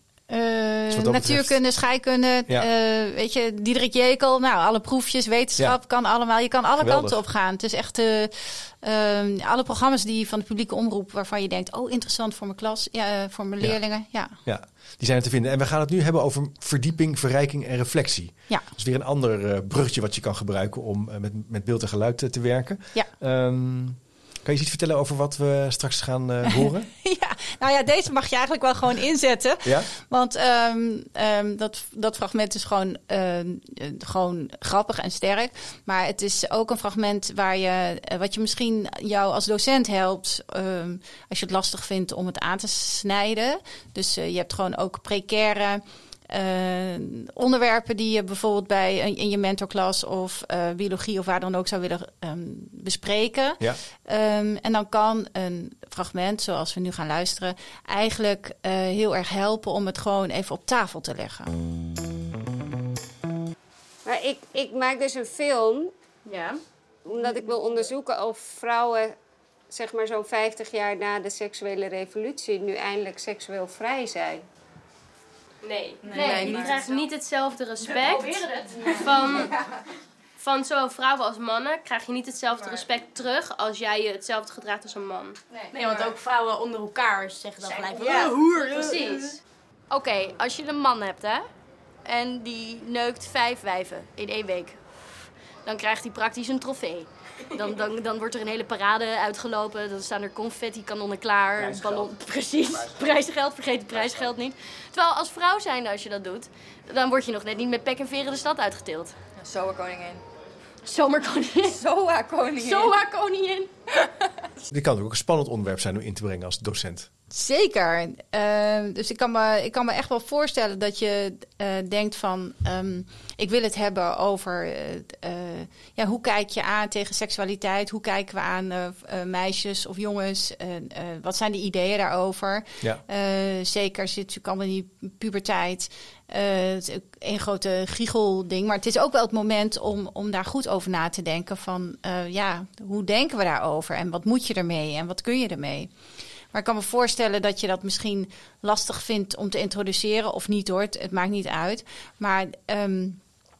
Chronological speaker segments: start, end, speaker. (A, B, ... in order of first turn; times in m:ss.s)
0:00.3-0:14.4 A
0:00.9-0:01.6 B
0:06.8-0:07.2 B
0:14.4-0:26.9 B
0:26.4-1:01.5 A
1:04.0-1:05.9 C
1:07.0-1:09.2 C
1:09.7-1:14.4 C
1:15.6-1:19.5 D
1:16.0-1:16.9 E
1:16.1-1:16.6 F
1:18.1-1:19.1 E
1:18.6-1:18.9 F
1:20.4-1:25.4 D
1:25.5-1:26.2 E
1:25.8-1:29.0 F
1:27.6-1:29.1 E
1:28.0-1:29.3 D
1:29.9-1:31.5 F
1:32.0-1:34.8 F
1:35.6-1:49.2 F
1:49.4-1:50.2 E
1:50.8-1:51.8 F
1:51.7-1:53.0 E
1:52.5-1:53.7 F
1:54.7-1:57.1 B
1:57.3-2:25.9 A
2:26.5-2:33.2 A